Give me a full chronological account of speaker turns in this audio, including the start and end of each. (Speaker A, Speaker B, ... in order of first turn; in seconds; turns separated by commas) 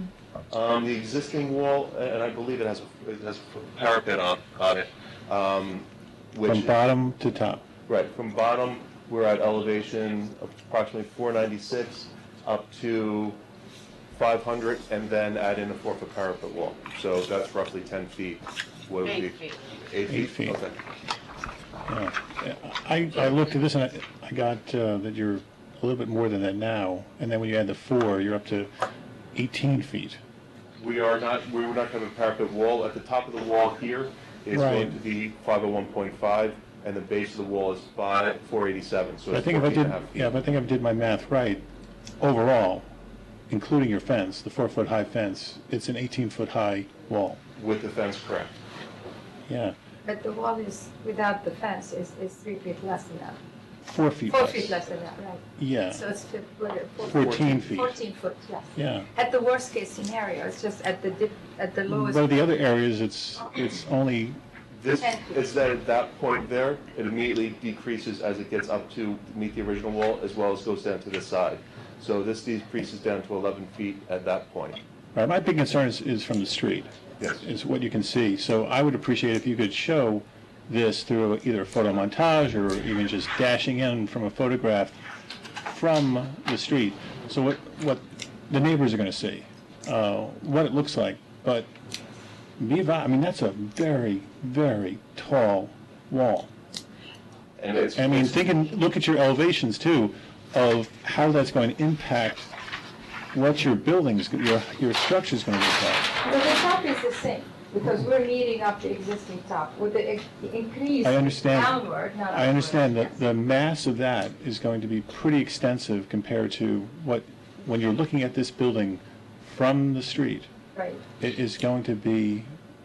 Speaker A: 0.5-6.8, Speaker B: 6.4-7.6, Speaker A: 7.9-13.4, Speaker A: 14.1-20.8, Speaker B: 20.1-20.6, Speaker B: 21.9-28.7, Speaker B: 29.3-30.2, Speaker A: 30.8-40.2, Speaker B: 34.5-35.0, Speaker B: 39.3-41.6, Speaker B: 42.2-42.9, Speaker B: 43.5-47.4, Speaker A: 47.6-48.5, Speaker B: 49.5-49.8, Speaker C: 50.0-53.4, Speaker B: 53.9-54.8, Speaker C: 54.3-62.4, Speaker B: 55.6-56.1, Speaker B: 57.0-58.0, Speaker A: 57.2-57.5, Speaker B: 58.8-59.1, Speaker B: 61.9-64.4, Speaker A: 64.7-74.8, Speaker C: 65.0-65.5, Speaker B: 75.2-85.0, Speaker B: 85.7-91.7, Speaker B: 92.6-96.5, Speaker A: 97.6-98.5, Speaker B: 98.0-102.5, Speaker B: 103.3-106.1, Speaker C: 106.2-113.1, Speaker B: 111.0-120.5, Speaker C: 120.8-121.0, Speaker B: 121.2-122.5